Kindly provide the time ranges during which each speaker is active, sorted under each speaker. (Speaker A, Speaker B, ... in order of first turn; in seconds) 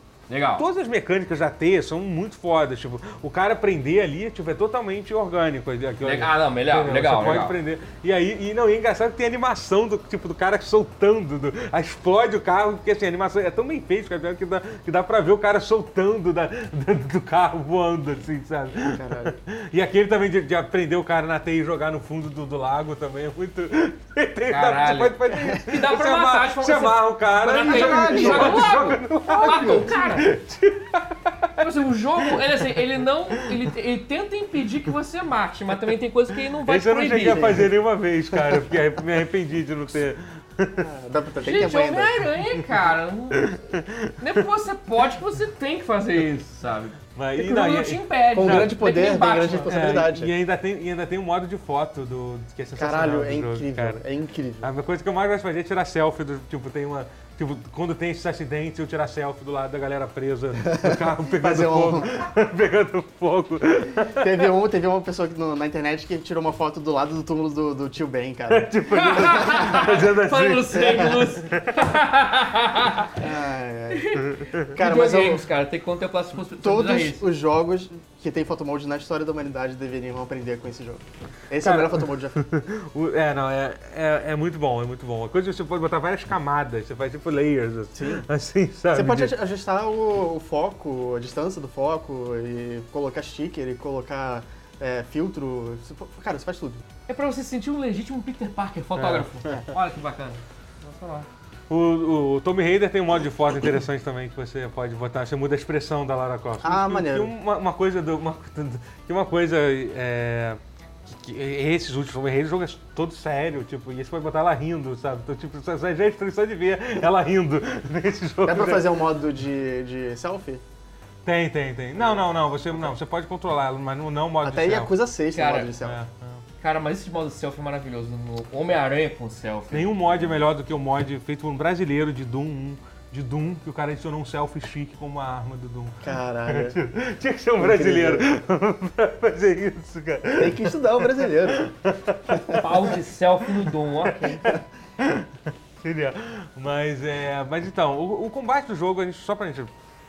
Speaker A: 0.3-0.6, 6.0-7.6, 24.5-30.3, 31.6-37.6, 41.4-49.8, 68.9-73.2, 73.9-77.2, 97.1-101.2, 125.3-125.8, 126.6-129.9, 142.5-144.6
Speaker B: 0.6-33.7, 36.6-40.9, 43.3-44.4, 47.1-48.7, 49.7-54.0, 54.6-64.3, 68.5-71.9, 74.2-74.7, 81.6-89.3, 99.0-99.6, 101.7-118.9, 121.2-124.9, 125.8-126.4, 129.7-142.9, 143.6-149.7
Speaker C: 18.9-19.4, 27.6-30.0, 37.2-37.7, 40.8-42.2, 48.3-50.3, 52.8-54.7, 60.6-62.2, 64.1-70.0, 70.7-71.3, 73.1-74.2, 74.7-75.5, 76.6-82.4, 87.9-88.2, 88.9-96.8, 106.6-107.3, 118.4-120.6, 124.4-126.0, 136.0-136.8, 137.6-138.2, 140.4-141.7, 142.3-142.6